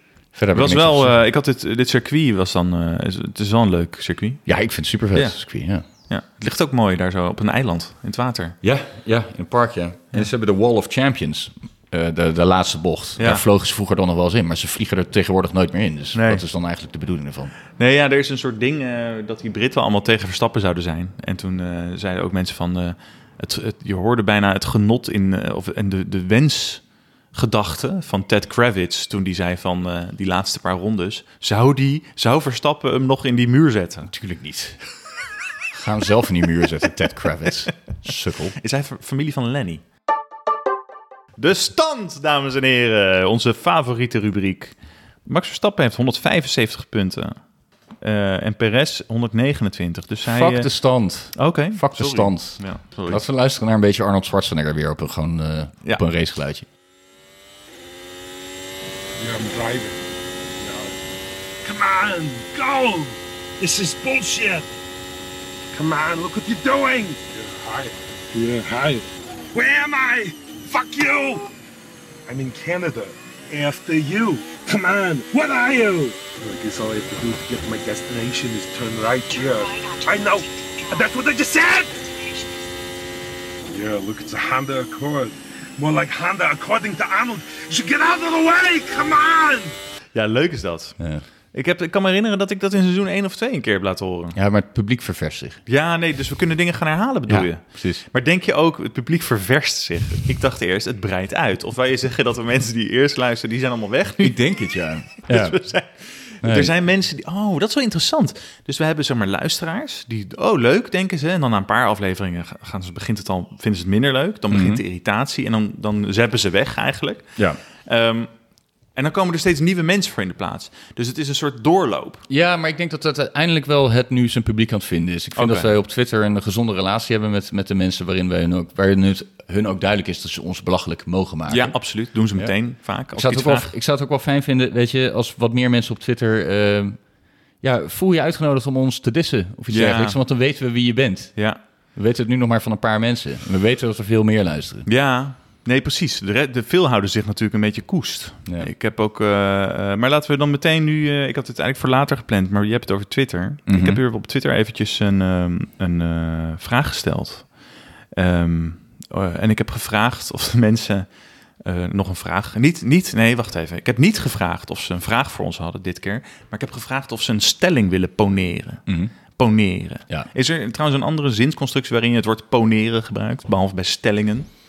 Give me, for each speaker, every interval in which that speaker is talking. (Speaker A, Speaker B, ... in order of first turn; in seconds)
Speaker A: 0.3-1.2, 4.5-5.8, 8.6-17.5, 34.1-34.8, 35.7-38.5, 50.2-56.6, 91.0-91.2, 94.3-95.6, 97.3-98.0, 104.2-105.6, 106.4-106.7, 114.5-114.8, 122.3-132.5, 133.1-137.0, 137.6-144.9, 153.7-154.0, 168.9-169.1
Speaker B: 0.5-4.5, 5.1-8.6, 13.2-13.4, 16.1-16.4, 17.8-34.1, 38.6-39.8, 41.4-47.4, 48.0-50.7, 51.3-53.2, 90.1-91.0, 91.5-94.3, 95.7-104.4, 105.2-118.3, 118.9-122.2, 125.3-125.7, 131.5-133.7, 139.7-140.2, 144.8-157.5, 158.1-161.1, 161.6-174.5
Speaker C: 59.2-60.0, 60.6-60.9, 61.6-64.7, 65.7-71.5, 72.3-82.1, 83.7-89.7